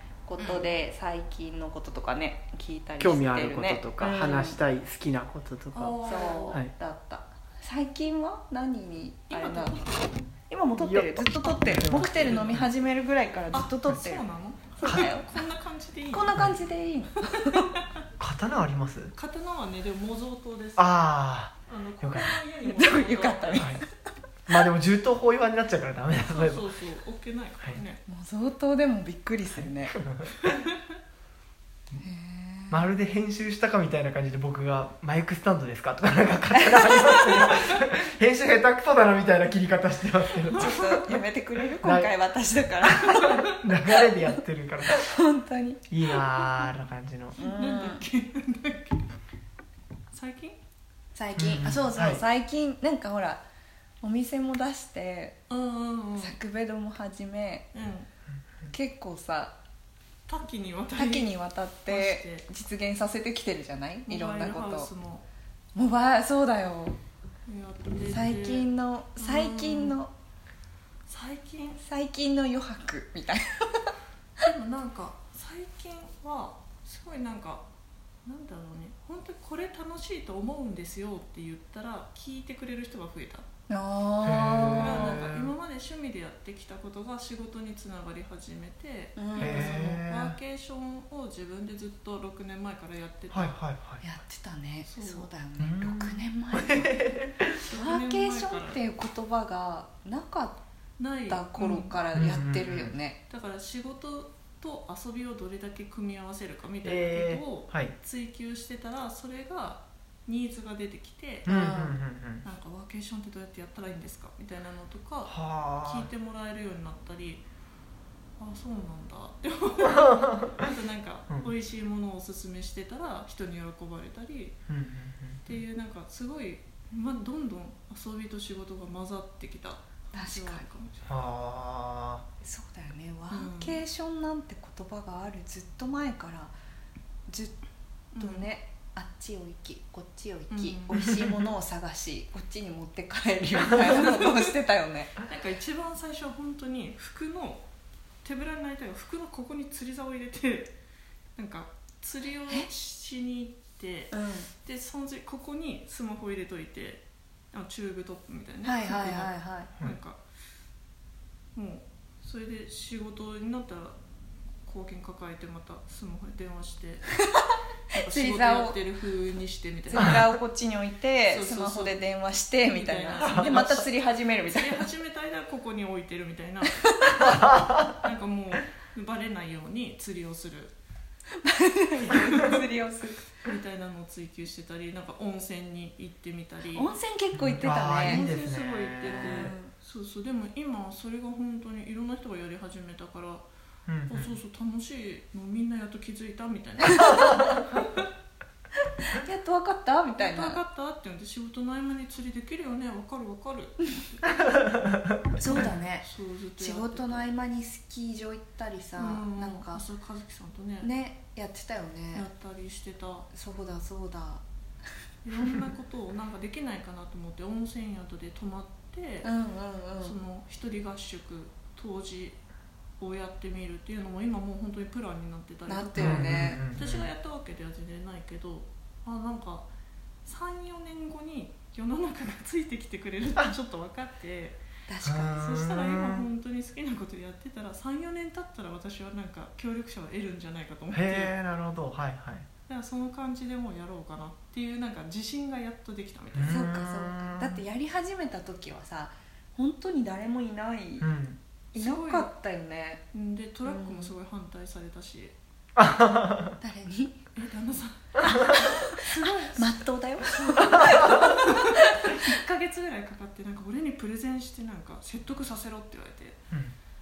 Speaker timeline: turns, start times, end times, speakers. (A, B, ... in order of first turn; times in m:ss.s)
0:00.3-0:04.6 A
0:00.4-0:00.7 B
0:03.0-0:06.0 C
0:05.7-0:06.6 B
0:06.0-0:09.8 A
0:09.3-0:10.2 B
0:10.5-0:14.2 A
0:10.8-0:12.7 C
0:12.2-0:12.6 B
0:13.5-0:16.4 B
0:14.8-0:15.3 A
0:16.1-0:17.7 A
0:16.3-0:16.6 C
0:17.3-0:17.9 B
0:18.2-0:19.1 C
0:19.2-0:21.0 B
0:20.8-0:22.4 C
0:21.7-0:23.8 B
0:22.6-0:23.9 A
0:24.5-0:26.7 C
0:26.3-0:28.0 B
0:28.1-0:30.0 A
0:29.6-0:30.4 C
0:30.5-0:30.9 B
0:32.0-0:32.8 A
0:32.7-0:40.9 C
0:36.6-0:37.5 A
0:40.5-0:44.3 A
0:40.5-0:41.1 B
0:41.8-0:42.1 C
0:43.1-0:45.0 C
0:43.2-0:43.6 B
0:44.9-0:46.7 A
0:45.9-0:47.4 C
0:47.4-0:48.0 A
0:47.4-0:49.1 B
0:50.1-0:50.6 B
0:51.1-0:53.4 A
0:51.4-0:52.2 C
0:54.0-0:55.4 A
0:55.5-0:56.4 B
0:56.2-0:57.7 A
0:57.7-0:58.1 B
0:58.7-0:59.6 A
1:00.3-1:01.3 B
1:00.9-1:04.9 A
1:01.9-1:02.4 B
1:04.1-1:05.3 B
1:05.7-1:07.0 A
1:07.5-1:10.0 B
1:08.1-1:10.1 A
1:11.1-1:11.8 B
1:11.8-1:13.9 A
1:14.4-1:17.6 B
1:18.2-1:23.5 B
1:23.7-1:25.2 A
1:24.2-1:25.5 C
1:24.8-1:33.6 B
1:29.2-1:29.8 A
1:29.4-1:30.4 C
1:33.3-1:34.0 C
1:34.0-1:37.2 A
1:34.9-1:35.3 B
1:35.6-1:37.6 C
1:37.6-1:38.8 B
1:37.7-1:40.6 A
1:41.0-1:42.0 B
1:41.3-1:43.2 A
1:42.1-1:42.9 C
1:43.3-1:51.5 B
1:46.8-1:47.9 C
1:51.5-1:52.0 A
1:51.5-1:52.4 C
1:52.4-1:57.4 B
1:55.3-1:56.1 C
1:58.4-2:04.6 B
2:00.0-2:00.5 C
2:04.7-2:05.6 C
2:05.4-2:11.1 B
2:10.1-2:10.6 A
2:11.1-2:12.2 C
2:12.4-2:16.5 A
2:13.3-2:13.8 B
2:17.3-2:17.6 A
2:18.1-2:18.5 B
2:18.2-2:25.2 A
2:20.5-2:21.1 B
2:23.8-2:24.5 B
2:25.2-2:27.6 B
2:28.2-2:30.7 B
2:31.4-2:40.2 B
2:34.1-2:34.5 A
2:38.6-2:39.7 A
2:41.6-2:44.0 B
2:44.7-2:47.1 B
2:47.3-2:48.8 A
2:47.9-2:50.3 B
2:49.9-2:54.9 A
2:51.3-2:52.0 B
2:52.6-2:53.9 B
2:54.4-2:57.4 B
2:56.8-2:57.3 A
2:57.4-2:57.9 C
2:58.0-3:00.8 B
3:01.4-3:03.3 A
3:02.1-3:02.6 B
3:03.4-3:06.9 B
3:06.7-3:08.3 A
3:07.3-3:09.6 C
3:08.0-3:13.4 B
3:09.1-3:09.7 A
3:13.9-3:14.3 C
3:14.1-3:18.0 B
3:17.0-3:17.3 A
3:19.0-3:20.6 A
3:20.2-3:24.6 B
3:25.4-3:26.1 A
3:25.5-3:27.3 B
3:26.6-3:29.8 A
3:29.0-3:30.9 B
3:30.8-3:32.3 A
3:32.1-3:33.3 B
3:33.3-3:34.4 A
3:35.2-3:39.3 B
3:39.2-3:40.2 A
3:40.0-3:42.4 B
3:43.0-3:49.7 B
3:45.7-3:46.6 A
3:46.0-3:47.1 C
3:50.2-3:54.6 B
3:54.9-3:55.5 A
3:55.0-3:56.2 C
3:55.4-4:01.3 B
4:00.9-4:02.5 C
4:02.7-4:06.6 B
4:06.3-4:07.6 C
4:06.5-4:11.1 A
4:11.0-4:11.4 C
4:11.7-4:13.0 A
4:11.8-4:12.3 B
4:13.1-4:15.3 B
4:13.7-4:14.1 A
4:15.8-4:16.6 C
4:16.6-4:17.2 A
4:17.4-4:26.4 B
4:18.2-4:22.3 A